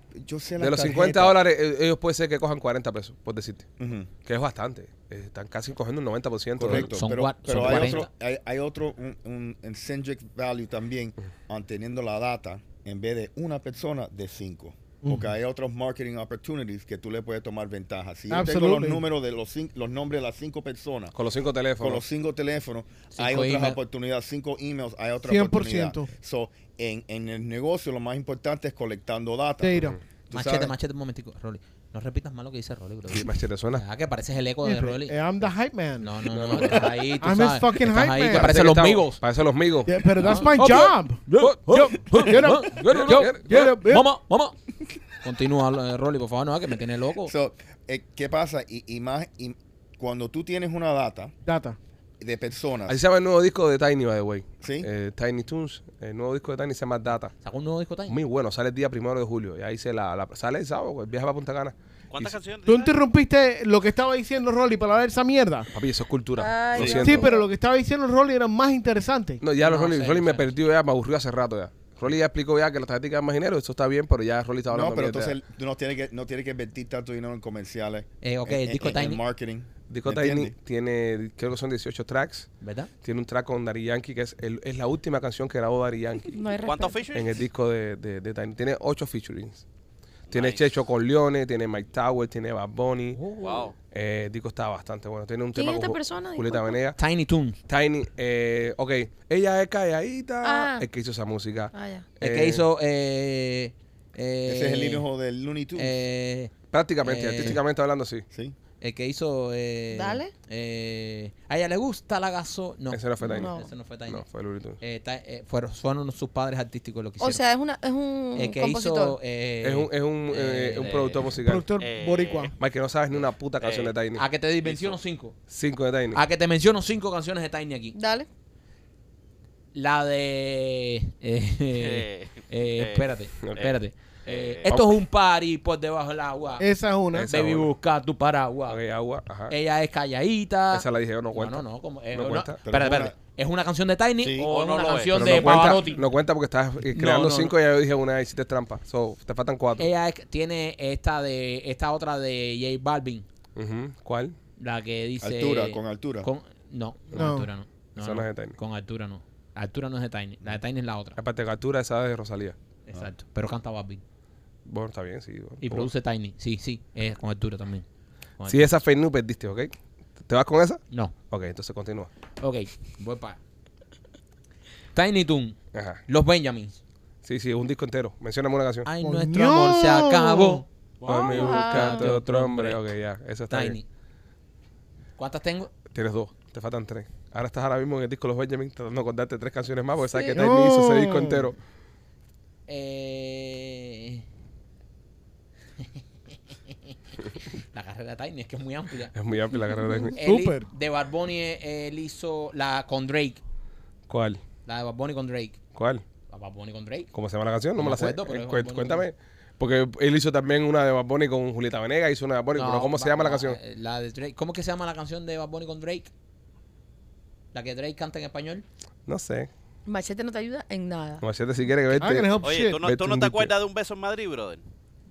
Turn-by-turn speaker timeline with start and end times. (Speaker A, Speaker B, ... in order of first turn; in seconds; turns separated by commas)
Speaker A: 0.2-1.4, Speaker B: 0.6-3.7, Speaker A: 3.8-4.1, Speaker B: 4.2-6.9, Speaker A: 6.6-21.1, Speaker C: 6.6-8.1, Speaker B: 7.5-8.0, Speaker D: 15.0-15.3, Speaker D: 18.3-19.0, Speaker B: 21.1-22.0, Speaker A: 21.8-30.7, Speaker C: 23.1-23.8, Speaker D: 25.2-26.1, Speaker D: 29.6-30.0, Speaker C: 30.3-35.2, Speaker B: 33.1-33.8, Speaker D: 34.6-38.6, Speaker C: 36.0-39.2, Speaker B: 36.3-36.9, Speaker B: 38.3-40.5, Speaker D: 39.8-44.0, Speaker C: 40.2-44.5, Speaker B: 42.9-43.7, Speaker C: 45.2-47.3, Speaker A: 47.2-51.3, Speaker D: 51.5-51.8, Speaker A: 52.2-53.0, Speaker B: 52.9-57.3, Speaker A: 54.6-54.9, Speaker C: 57.4-58.2, Speaker B: 58.1-62.4, Speaker E: 62.1-62.9, Speaker D: 62.6-65.7, Speaker B: 65.7-67.3, Speaker F: 66.4-67.4, Speaker D: 66.8-69.4, Speaker B: 69.4-75.4, Speaker C: 69.5-70.5, Speaker A: 74.7-80.5, Speaker C: 78.2-79.2, Speaker B: 79.9-82.5, Speaker C: 82.6-82.9, Speaker B: 83.0-86.4, Speaker F: 86.3-87.0, Speaker E: 86.6-87.4, Speaker B: 87.1-89.6, Speaker E: 90.3-90.7, Speaker B: 90.3-93.2, Speaker C: 93.1-93.7, Speaker E: 93.4-93.7, Speaker B: 93.9-97.0, Speaker F: 95.5-96.8, Speaker C: 97.0-97.6, Speaker B: 97.7-102.6, Speaker F: 100.4-100.8, Speaker F: 101.7-102.0, Speaker C: 102.2-105.1, Speaker A: 104.5-106.0, Speaker C: 105.8-106.5, Speaker B: 106.7-108.2, Speaker C: 107.0-107.6, Speaker A: 108.3-108.6, Speaker C: 108.8-114.2, Speaker F: 109.9-110.3, Speaker B: 112.9-113.5, Speaker F: 113.2-113.7, Speaker B: 114.1-114.8, Speaker C: 114.8-117.4, Speaker F: 117.2-119.2, Speaker C: 118.3-121.3, Speaker B: 119.6-121.7, Speaker D: 121.4-122.5, Speaker E: 121.8-122.5, Speaker B: 122.6-124.2, Speaker E: 123.6-123.9, Speaker C: 124.1-125.3, Speaker E: 124.6-125.0, Speaker B: 125.5-126.2, Speaker C: 126.1-127.9, Speaker F: 127.9-128.3, Speaker C: 129.7-136.7, Speaker E: 131.8-133.7, Speaker E: 134.2-134.7, Speaker D: 136.6-137.3, Speaker B: 137.1-137.7, Speaker C: 137.2-138.8, Speaker B: 138.7-139.5, Speaker C: 139.5-146.1, Speaker B: 140.7-142.6, Speaker A: 142.6-143.1, Speaker A: 144.2-144.5, Speaker E: 144.4-145.8, Speaker B: 145.1-149.9, Speaker C: 146.9-147.5, Speaker C: 149.8-153.2, Speaker B: 153.5-154.3, Speaker C: 154.6-161.2, Speaker A: 155.2-156.3, Speaker D: 157.1-157.5, Speaker B: 157.9-158.6, Speaker B: 161.2-162.6, Speaker C: 162.9-164.0, Speaker B: 164.7-165.9, Speaker C: 165.6-167.8, Speaker C: 168.4-168.7, Speaker B: 168.4-169.7, Speaker B: 170.2-172.1, Speaker C: 170.9-171.2, Speaker C: 172.4-173.4, Speaker C: 174.9-176.8, Speaker B: 175.7-176.0, Speaker B: 177.2-178.9, Speaker C: 178.8-182.8, Speaker D: 179.0-180.6, Speaker B: 181.1-183.8, Speaker F: 181.1-182.1, Speaker C: 183.5-183.8, Speaker C: 185.2-185.8, Speaker B: 185.8-191.6, Speaker D: 190.3-191.5, Speaker C: 192.7-194.2, Speaker C: 195.8-196.0, Speaker C: 196.7-199.1, Speaker B: 199.1-200.2, Speaker C: 200.2-203.4, Speaker D: 200.2-200.7, Speaker B: 204.1-204.4, Speaker C: 204.6-205.6, Speaker B: 205.8-206.0, Speaker C: 206.3-207.1, Speaker B: 207.1-213.6, Speaker C: 207.8-209.1, Speaker C: 212.5-216.1, Speaker C: 217.5-218.6, Speaker B: 219.1-219.5, Speaker F: 219.8-221.2, Speaker B: 221.2-223.5, Speaker D: 221.9-222.8, Speaker E: 222.4-224.6